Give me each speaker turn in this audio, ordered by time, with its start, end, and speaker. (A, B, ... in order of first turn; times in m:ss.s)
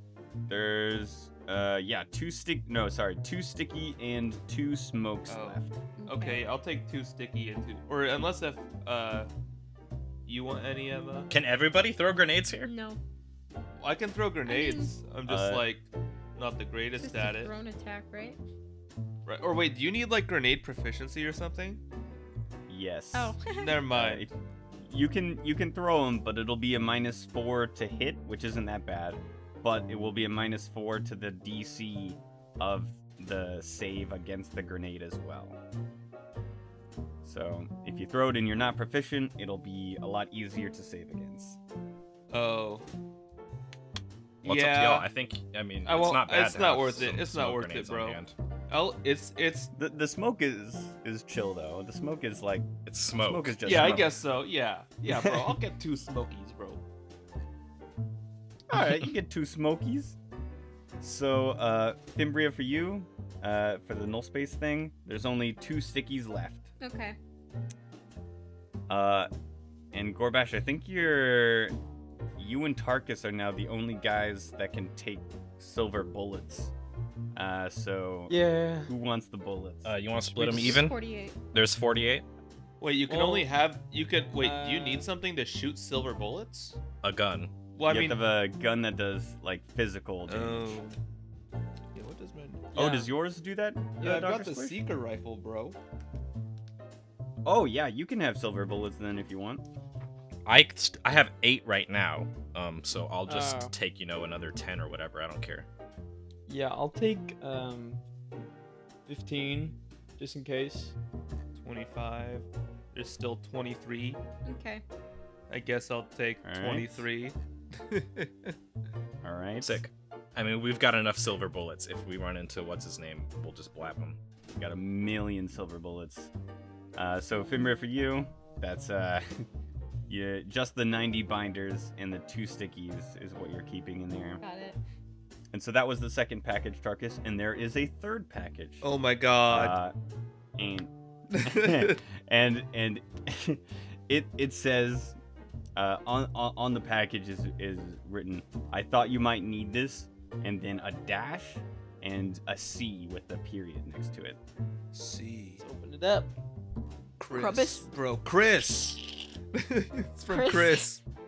0:00.5-0:05.7 A
0:05.3-0:09.3 B
0:06.0-0:06.4 C
0:10.3-0:11.3 B
0:11.3-0:12.7 D
0:12.6-0:13.0 C
0:13.8-0:17.5 B
0:14.5-0:15.0 C
0:15.3-0:15.7 A
0:17.0-0:18.4 C
0:19.3-0:21.8 B
0:22.7-0:23.4 A
0:23.1-0:23.8 C
0:23.5-0:24.3 B
0:23.9-0:35.6 A
0:37.2-0:41.6 A
0:42.3-0:42.8 B
0:44.4-0:45.1 B
0:44.4-0:48.3 D
0:45.8-0:49.7 B
0:49.8-0:52.7 A
0:52.9-0:53.6 D
0:53.2-0:54.1 A
0:53.6-0:56.8 B
0:55.1-0:55.5 A
0:58.7-1:00.2 A
1:01.0-1:06.7 A
1:06.8-1:07.2 C
1:08.9-1:09.3 A
1:09.9-1:11.8 A
1:12.4-1:16.7 A
1:17.4-1:20.0 A
1:18.3-1:18.9 E
1:19.8-1:21.0 D
1:20.4-1:21.4 C
1:21.5-1:22.2 D
1:22.8-1:26.8 B
1:23.1-1:23.5 E
1:24.4-1:25.1 E
1:27.0-1:27.5 D
1:27.8-1:28.2 B
1:27.9-1:30.8 A
1:30.3-1:31.0 B
1:31.9-1:32.7 B
1:32.7-1:33.1 E
1:32.8-1:34.8 A
1:34.0-1:35.8 B
1:37.4-1:39.6 A
1:40.5-1:45.7 D
1:43.3-1:43.7 E
1:46.5-1:48.0 E
1:49.1-1:51.0 E
1:51.6-1:54.2 B
1:54.4-1:54.8 C
1:55.5-1:58.6 B
1:56.4-1:57.0 A
1:59.2-1:59.8 A
1:59.6-2:04.2 D
2:04.6-2:06.3 A
2:07.0-2:09.4 A
2:10.1-2:14.4 A
2:14.4-2:14.8 C
2:15.5-2:18.9 A
2:18.8-2:19.8 B
2:19.5-2:19.9 A
2:20.6-2:25.2 A
2:21.3-2:22.0 B
2:25.8-2:34.4 A
2:34.9-2:35.6 B
2:35.6-2:36.3 E
2:37.2-2:41.0 B
2:37.3-2:37.9 C
2:40.3-2:40.8 C